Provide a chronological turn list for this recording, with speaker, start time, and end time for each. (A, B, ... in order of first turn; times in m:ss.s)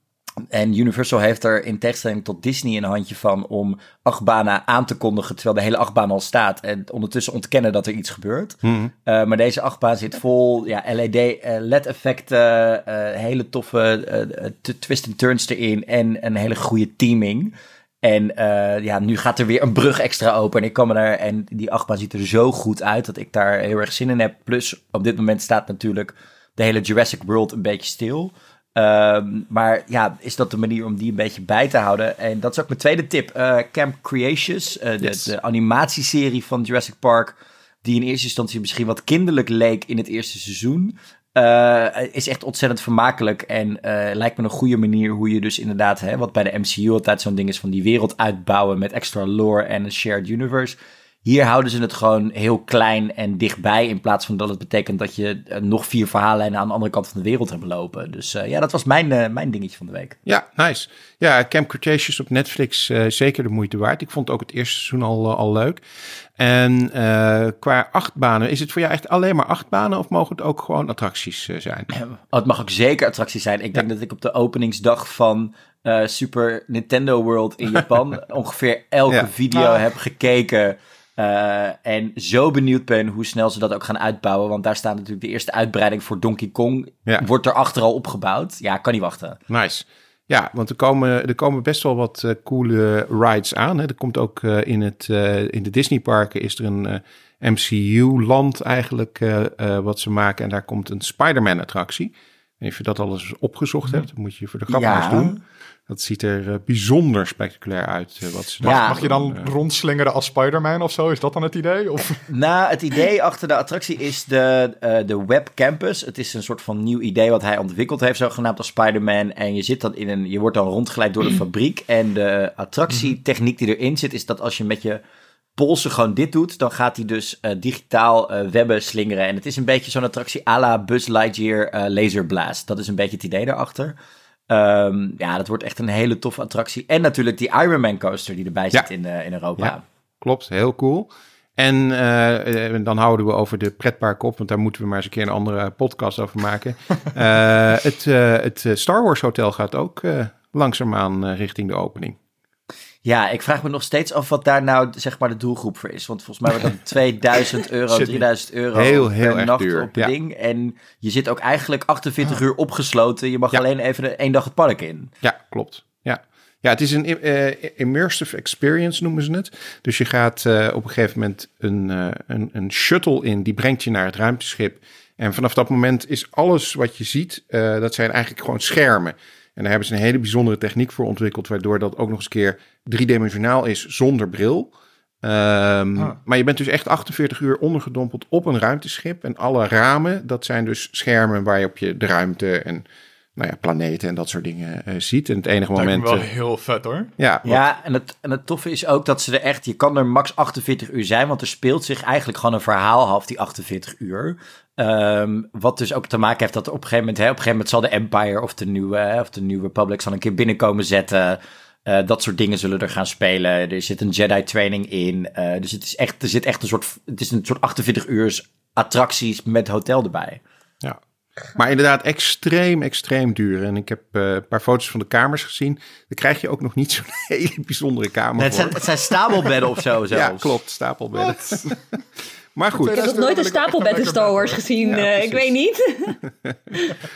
0:00.5-1:00.2 A
0:08.6-0:08.9 B
0:35.0-0:35.3 B
1:00.2-1:05.8 B
1:06.4-1:11.9 B
1:11.9-1:29.4 A
1:29.5-1:49.5 B
1:44.7-1:45.4 A
1:48.6-1:49.0 A
1:48.6-1:52.2 C
1:52.3-2:05.0 A
2:05.6-2:13.9 A
2:14.5-2:19.8 A
2:19.6-2:32.2 B
2:33.0-2:45.1 A
2:38.7-2:40.1 B
2:45.2-3:12.8 B
3:13.4-3:16.3 B
3:15.8-3:17.1 C
3:17.2-3:17.6 B
3:17.4-3:40.4 A
3:41.5-3:49.1 B
3:48.4-3:50.6 A
3:50.1-3:51.8 B
3:51.2-3:51.8 C
3:52.5-3:53.2 B
3:52.8-3:54.7 C
3:52.8-3:56.2 D
3:54.8-3:55.5 B
3:56.4-3:56.7 B